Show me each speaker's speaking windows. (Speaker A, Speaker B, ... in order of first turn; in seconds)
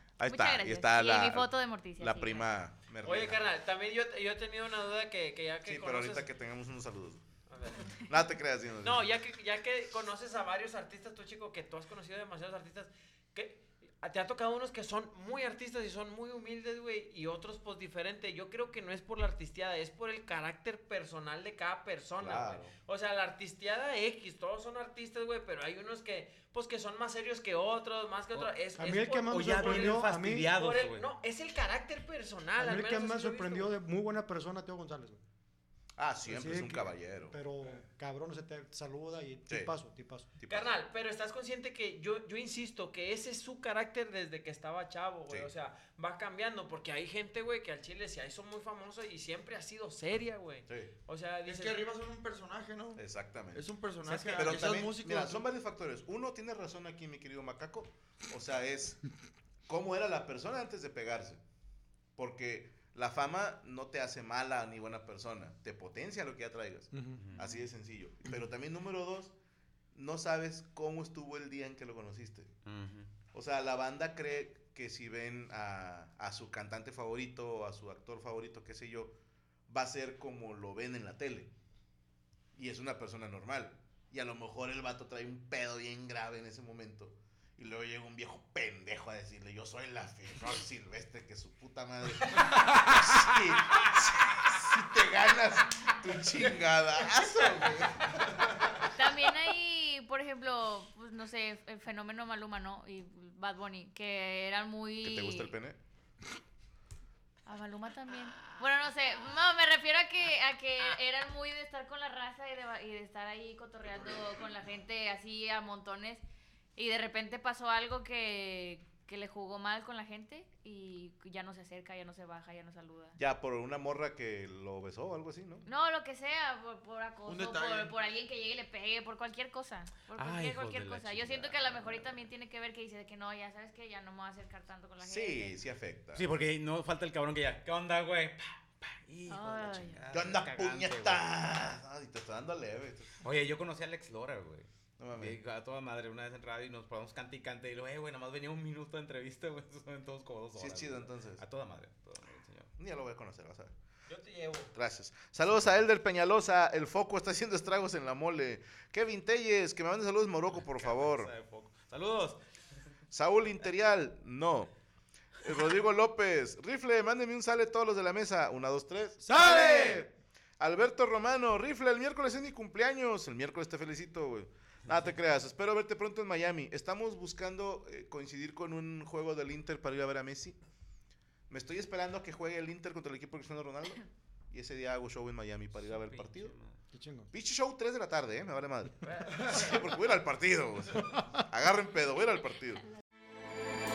Speaker A: 0.2-3.4, 5.7-7.2, 8.0-9.1, 22.2-22.7, 36.0-37.4, 39.5-39.7, 40.4-40.7, 53.0-59.0, 59.7-61.4, 62.2-69.3, 69.9-72.5, 73.3-79.2, 79.7-81.5, 82.5-98.2, 105.0-105.8, 123.2-125.7, 135.0-136.3, 140.1-143.2, 145.0-145.4, 150.6-151.4, 152.8-153.7, 154.7-161.3, 163.1-164.7, 165.4-180.6, 181.5-186.6, 187.3-192.8
Speaker B: 0.3-2.5, 98.9-105.5, 107.5-116.2, 116.8-123.2, 125.7-135.6, 139.3-140.0
Speaker C: 3.0-6.3, 7.5-8.0, 8.8-33.7, 40.5-51.8, 154.1-154.7, 189.0-190.0
Speaker D: 28.8-30.6, 32.6-35.2, 36.2-40.3, 66.9-67.2, 169.2-170.1, 186.9-187.3
Speaker E: 29.3-31.1, 67.2-67.6, 72.7-73.1, 130.2-132.2, 136.2-141.2, 143.2-152.7, 160.6-162.4, 185.7-186.8
Speaker F: 51.5-55.4, 127.2-127.9